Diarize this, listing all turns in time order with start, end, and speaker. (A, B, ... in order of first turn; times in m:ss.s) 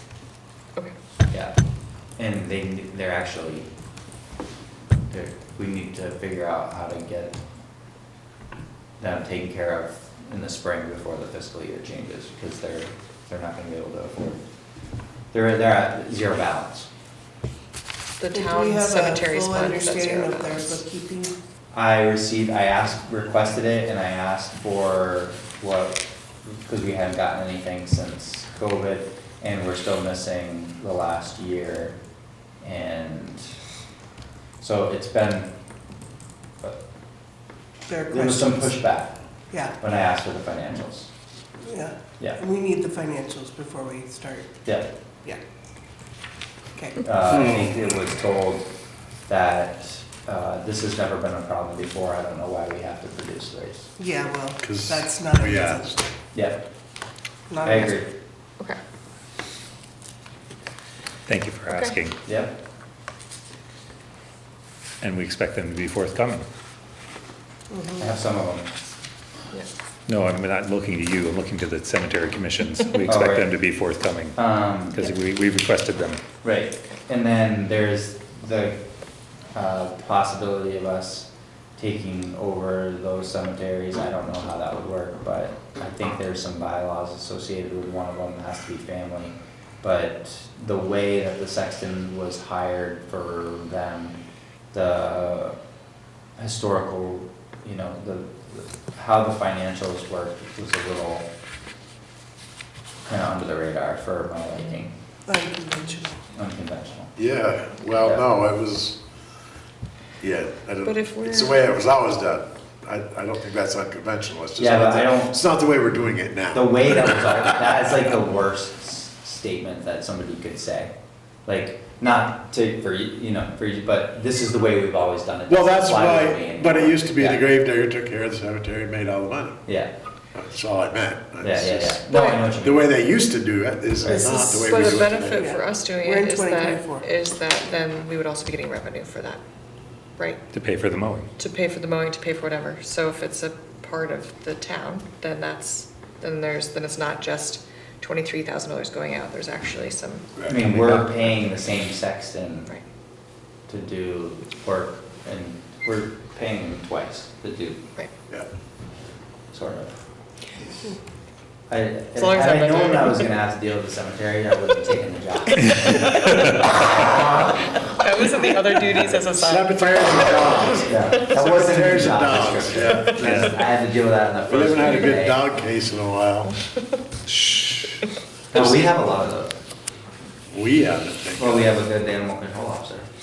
0:02.2-0:03.7 A
0:05.1-0:07.4 A
0:09.0-0:14.4 A
0:15.3-0:16.9 A
0:18.2-0:20.8 B
0:18.3-0:21.3 C
0:21.7-0:32.0 A
0:32.6-0:33.5 A
0:34.6-0:35.5 A
0:37.9-0:38.6 C
0:38.1-0:39.2 A
0:39.7-0:41.1 A
0:41.6-0:44.5 C
0:46.8-0:47.0 C
0:47.0-0:48.7 A
0:47.3-0:47.7 D
0:49.3-0:53.9 A
0:54.0-0:55.9 C
0:54.6-0:56.0 D
0:56.3-0:56.6 A
0:57.5-0:57.9 C
0:57.6-0:58.1 A
1:01.2-1:02.2 E
1:01.7-1:02.0 B
1:02.2-1:02.5 A
1:05.0-1:06.4 E
1:07.7-1:08.0 C
1:08.0-1:08.7 A
1:10.1-1:16.2 E
1:13.0-1:13.5 A
1:14.3-1:15.1 A
1:16.4-1:18.8 A
1:19.5-1:34.2 A
1:34.7-1:35.6 A
1:36.4-1:41.3 A
1:43.0-1:44.9 A
1:45.3-1:46.2 C
1:46.3-1:47.1 A
1:47.2-1:49.0 D
1:50.2-1:57.2 D
1:50.8-1:51.6 B
1:54.6-1:55.4 A
1:56.5-2:00.9 A
2:01.4-2:07.4 A
2:05.5-2:09.6 D
2:09.6-2:09.9 A
2:10.3-2:15.5 D
2:11.4-2:13.0 A
2:12.1-2:12.4 B
2:14.0-2:14.8 C
2:14.5-2:19.4 B
2:15.3-2:17.0 C
2:20.2-2:20.4 B
2:20.5-2:21.3 E
2:21.4-2:30.3 B
2:30.5-2:32.7 A
2:30.5-2:31.1 E
2:33.7-2:37.8 A
2:39.5-2:40.0 A
2:41.7-2:47.4 A
2:42.2-2:43.2 B
2:46.1-2:46.4 E
2:47.9-2:51.1 B
2:49.1-2:53.5 D
2:50.8-2:55.4 A
2:53.2-2:53.6 E
2:54.5-2:56.5 D
2:57.3-2:58.0 E
2:58.5-2:59.6 A
2:58.5-2:58.8 D
3:00.5-3:01.7 D
3:01.4-3:03.1 A